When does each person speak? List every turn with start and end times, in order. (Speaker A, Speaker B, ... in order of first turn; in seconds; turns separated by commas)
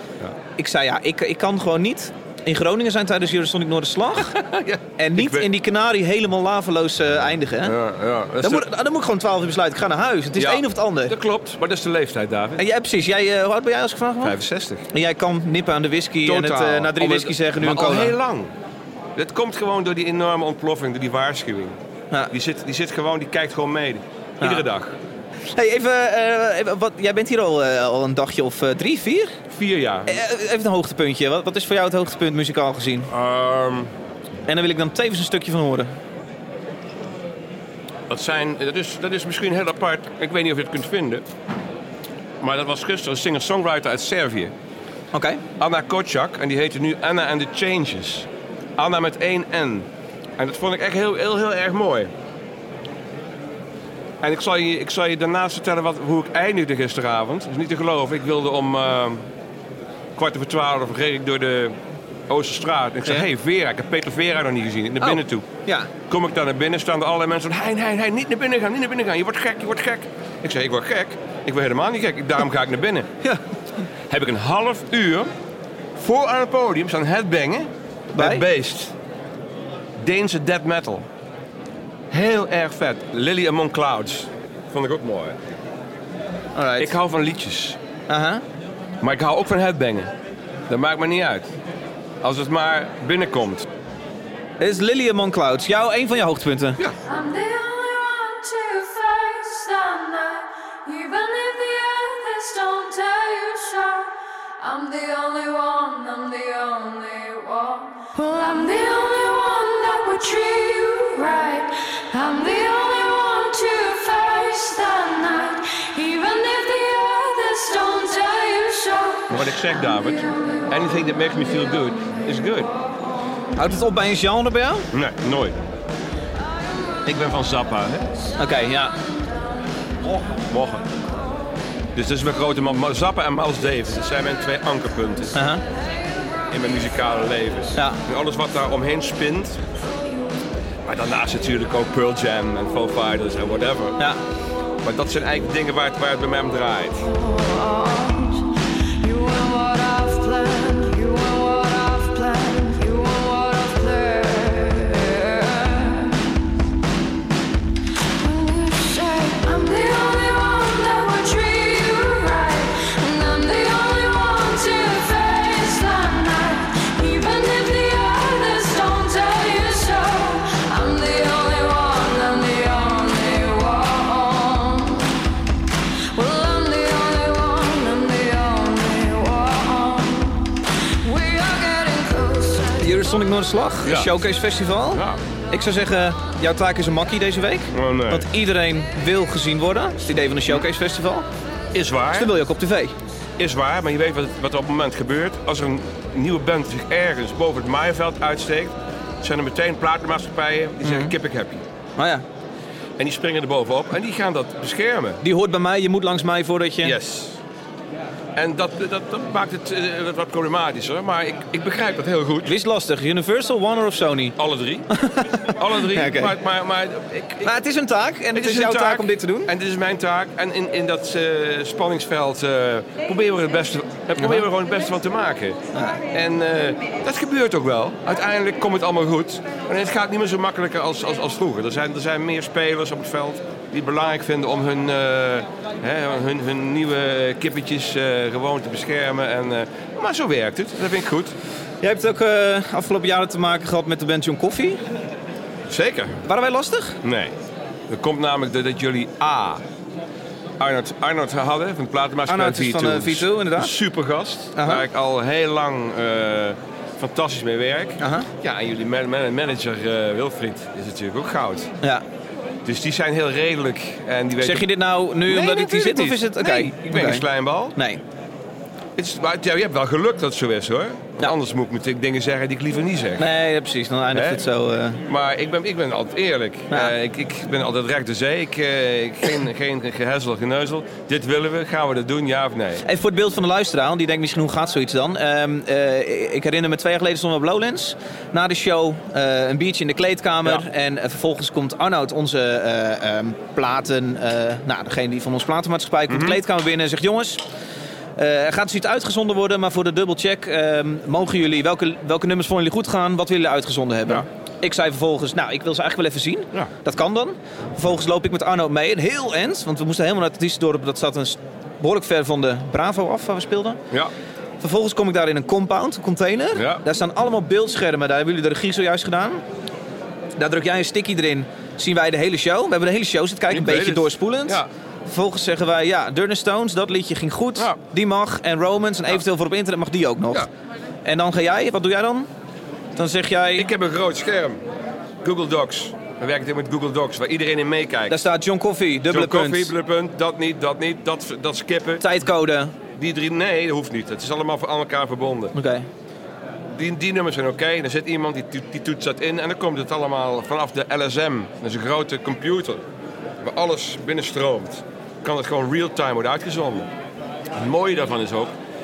Speaker A: 0.6-4.4, Speaker B: 4.2-5.5, Speaker A: 5.0-7.7, Speaker B: 7.6-8.7, Speaker A: 8.4-11.1, Speaker B: 10.3-12.6, Speaker A: 12.6-14.3, Speaker B: 14.2-14.9, Speaker A: 14.9-18.1, Speaker B: 16.2-18.5, Speaker B: 19.1-21.8, Speaker B: 22.3-24.9, Speaker A: 25.5-29.4, Speaker B: 29.5-30.2, Speaker A: 30.1-33.1, Speaker B: 33.1-33.9, Speaker A: 34.5-35.9, Speaker B: 38.1-41.3, Speaker B: 42.4-44.5, Speaker A: 45.1-45.4, Speaker B: 45.6-52.1, Speaker B: 54.2-59.2, Speaker B: 60.1-61.8, Speaker B: 62.3-65.5, Speaker A: 65.0-65.9, Speaker B: 66.1-73.1, Speaker B: 74.1-75.3, Speaker B: 76.0-78.9, Speaker A: 78.1-78.4, Speaker B: 80.0-81.1, Speaker B: 82.1-85.4, Speaker A: 86.5-86.9, Speaker B: 86.8-87.8, Speaker A: 88.1-88.4, Speaker B: 89.0-90.1, Speaker B: 90.7-91.5, Speaker B: 92.2-93.7, Speaker A: 94.6-96.8, Speaker C: 97.1-119.4, Speaker B: 119.3-122.7, Speaker A: 123.5-124.9, Speaker B: 124.9-125.6, Speaker B: 127.0-128.1, Speaker A: 128.4-128.9, Speaker B: 130.0-130.9, Speaker B: 131.9-135.4, Speaker A: 135.3-135.6, Speaker B: 136.5-139.7, Speaker B: 140.8-144.0, Speaker B: 144.8-147.1, Speaker C: 147.2-156.2, Speaker C: 158.2-175.2, Speaker C: 176.1-182.9, Speaker A: 182.8-191.2, Speaker B: 183.8-184.2, Speaker B: 184.9-185.2, Speaker B: 187.7-188.3, Speaker B: 191.7-192.3, Speaker A: 192.1-192.9, Speaker B: 193.4-201.6, Speaker A: 200.8-201.1, Speaker A: 202.0-202.2, Speaker B: 203.0-205.2, Speaker A: 205.2-206.9, Speaker B: 206.8-207.4, Speaker B: 208.3-212.5, Speaker A: 212.4-214.3, Speaker B: 214.4-214.9, Speaker A: 214.9-216.3, Speaker B: 215.5-217.5, Speaker A: 217.4-219.5, Speaker B: 218.3-241.3, Speaker A: 225.7-226.0, Speaker A: 241.8-244.8, Speaker B: 245.7-246.2, Speaker A: 246.2-247.0, Speaker B: 247.0-247.3, Speaker B: 247.9-249.6, Speaker B: 250.6-261.7, Speaker A: 252.3-253.7, Speaker A: 254.5-254.8, Speaker A: 258.0-258.3, Speaker B: 262.6-264.7, Speaker A: 264.4-267.2, Speaker B: 265.2-267.8, Speaker A: 267.8-268.0, Speaker B: 268.9-273.3, Speaker A: 273.2-275.0, Speaker B: 274.1-274.4, Speaker B: 275.0-282.8, Speaker A: 282.8-297.4, Speaker B: 296.1-296.4, Speaker A: 298.2-313.8, Speaker A: 314.6-319.4, Speaker B: 316.5-316.8, Speaker A: 320.4-330.5, Speaker B: 323.5-324.7, Speaker A: 331.0-332.3, Speaker A: 332.9-333.7, Speaker B: 333.6-334.6, Speaker B: 335.2-338.3, Speaker A: 338.1-339.7, Speaker B: 339.1-342.0, Speaker A: 342.0-342.7, Speaker B: 342.9-345.5, Speaker A: 345.5-345.9, Speaker B: 346.7-352.8, Speaker B: 353.4-356.9, Speaker B: 357.5-358.6